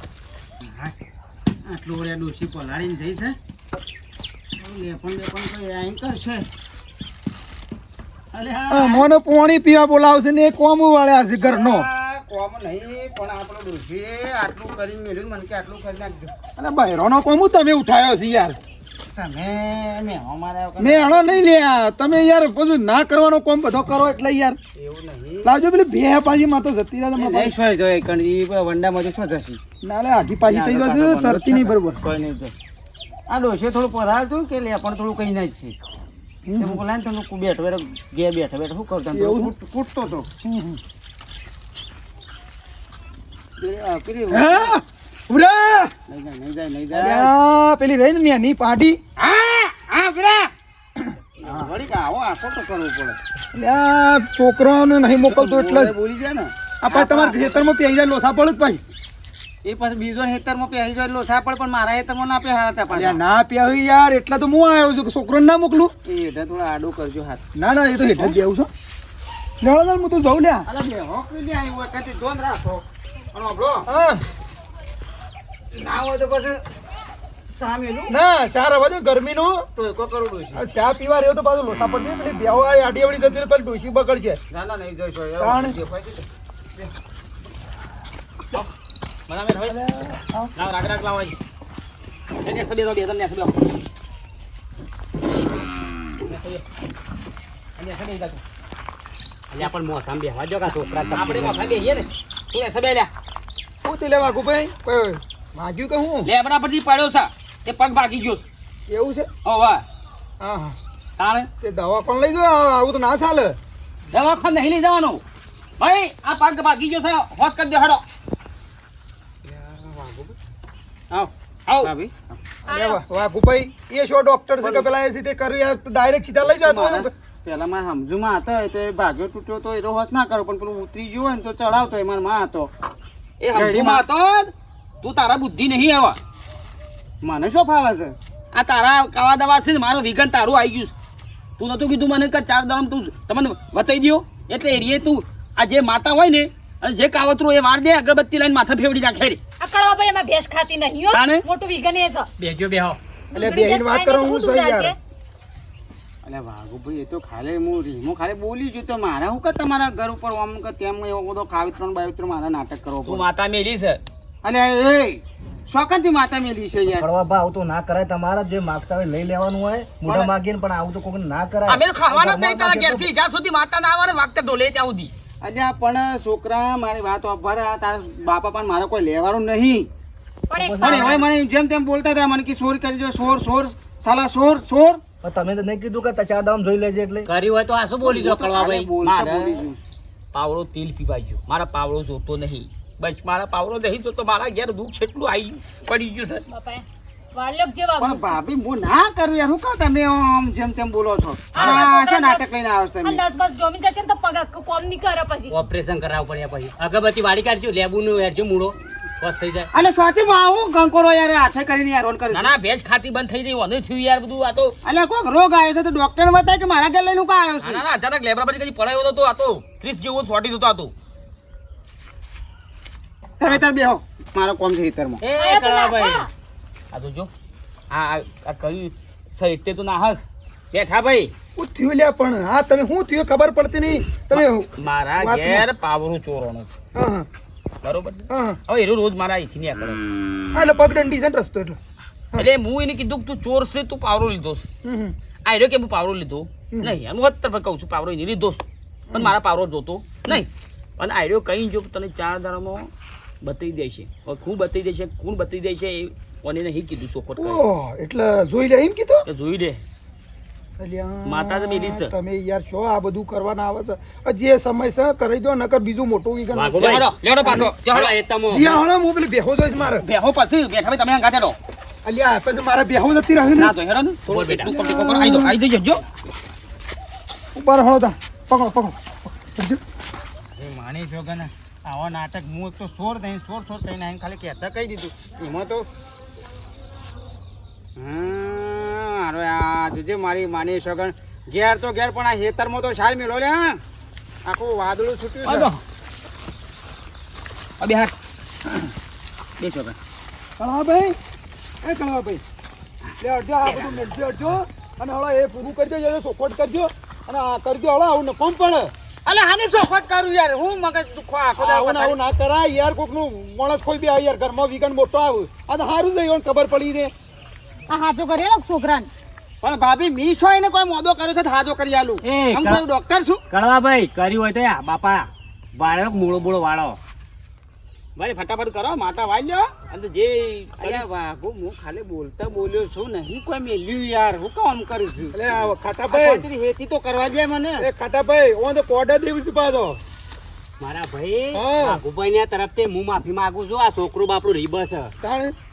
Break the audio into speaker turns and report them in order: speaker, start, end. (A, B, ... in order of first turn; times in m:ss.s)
0:00.6-0:00.9 A
0:01.6-0:03.4 A
0:04.6-0:06.4 A
0:08.3-0:09.1 A
0:08.7-0:11.8 B
0:11.4-0:16.3 A
0:16.6-0:18.6 B
0:19.1-0:21.4 A
0:20.8-0:24.6 B
0:24.8-0:25.5 A
0:25.4-0:27.5 B
0:27.1-0:29.6 A
0:29.8-0:32.0 B
0:30.4-0:32.5 A
0:33.3-0:35.8 A
0:36.4-0:36.8 B
0:36.6-0:40.3 A
0:39.1-0:39.5 B
0:40.4-0:40.8 B
0:43.6-0:44.8 A
0:44.3-0:45.9 B
0:46.1-0:47.3 A
0:46.9-0:49.0 B
0:49.2-0:50.5 A
0:51.0-0:51.7 B
0:51.4-0:53.2 A
0:53.5-0:55.9 B
0:55.2-0:57.7 A
0:56.8-0:58.8 B
0:59.6-1:03.2 A
1:02.9-1:05.9 B
1:06.0-1:07.4 A
1:07.5-1:08.7 B
1:09.6-1:10.7 B
1:10.6-1:13.9 A
1:13.9-1:14.2 B
1:15.7-1:16.6 A
1:17.5-1:18.2 A
1:18.1-1:19.6 B
1:19.7-1:20.7 A
1:20.5-1:24.4 B
1:24.5-1:26.9 A
1:25.4-1:25.8 B
1:29.3-1:29.8 C
1:29.7-1:30.5 B
1:30.6-1:31.3 C
1:32.4-1:33.7 C
1:36.2-1:36.6 C
1:37.8-1:38.4 C
1:39.5-1:41.6 D
1:41.1-1:43.1 C
1:43.8-1:46.3 B
1:46.2-1:48.4 C
1:48.9-1:49.3 B
1:49.4-1:49.8 C
1:50.4-1:50.8 B
1:51.2-1:51.5 C
1:51.6-1:53.6 B
1:54.1-1:55.2 C
1:55.8-1:58.0 C
1:59.4-2:00.3 A
2:01.1-2:02.4 A
2:02.7-2:03.0 E
2:02.7-2:07.1 B
2:04.6-2:04.9 A
2:06.4-2:12.7 A
2:13.4-2:14.5 C
2:13.5-2:14.0 A
2:15.0-2:16.2 C
2:17.2-2:18.2 A
2:18.5-2:20.9 C
2:21.6-2:29.4 C
2:29.6-2:32.3 E
2:31.1-2:31.4 C
2:32.4-2:33.0 D
2:33.3-2:34.9 E
2:33.3-2:34.9 B
2:36.2-2:43.2 A
2:43.0-2:44.0 C
2:44.4-2:47.1 A
2:47.0-2:53.1 F
2:50.0-2:50.4 A
2:51.6-2:55.1 C
2:55.4-2:59.9 A
3:00.5-3:01.2 E
3:00.5-3:01.2 F
3:00.8-3:05.0 A
3:05.2-3:07.3 F
3:07.3-3:08.9 D
3:07.6-3:09.6 C
3:08.0-3:09.8 A
3:10.3-3:16.4 C
3:16.5-3:18.4 E
3:18.0-3:23.2 A
3:21.5-3:22.4 E
3:23.0-3:25.6 E
3:25.5-3:29.7 D
3:29.7-3:32.5 A
3:32.3-3:34.7 C
3:34.8-3:37.8 A
3:37.6-3:40.9 C
3:43.4-3:45.2 A
3:45.2-3:46.2 D
3:45.3-3:46.3 E
3:46.9-3:47.3 C
3:47.9-3:51.3 C
3:51.6-3:55.7 B
3:54.3-3:56.7 C
3:56.9-3:57.3 B
3:57.8-4:00.0 C
3:58.3-3:58.6 B
4:00.5-4:01.8 B
4:02.3-4:04.6 C
4:04.8-4:05.1 B
4:05.4-4:12.9 C
4:06.7-4:07.0 B
4:13.4-4:17.6 C
4:17.4-4:19.2 B
4:19.2-4:19.8 C
4:20.8-4:26.8 B
4:21.2-4:22.1 C
4:26.5-4:28.8 D
4:26.7-4:28.8 C
4:27.4-4:30.0 B
4:29.8-4:31.6 C
4:32.0-4:33.7 B
4:33.5-4:36.0 C
4:34.3-4:34.7 D
4:34.6-4:35.6 B
4:37.5-4:39.8 B
4:40.6-4:45.9 A
4:48.0-4:53.8 A
4:54.4-4:55.7 A
4:55.4-4:55.8 C
4:57.8-4:58.1 C
4:59.6-5:00.0 C
5:00.6-5:01.2 B
5:01.8-5:02.4 B
5:03.2-5:08.9 B
5:09.2-5:12.2 A
5:11.6-5:17.1 B
5:17.9-5:19.1 E
5:19.6-5:23.4 A
5:22.2-5:22.8 D
5:23.5-5:27.0 D
5:28.2-5:31.0 C
5:30.8-5:37.9 A
5:35.3-5:36.4 B
5:37.8-5:40.0 B
5:40.8-5:45.1 D
5:41.5-5:42.0 B
5:45.2-5:45.5 B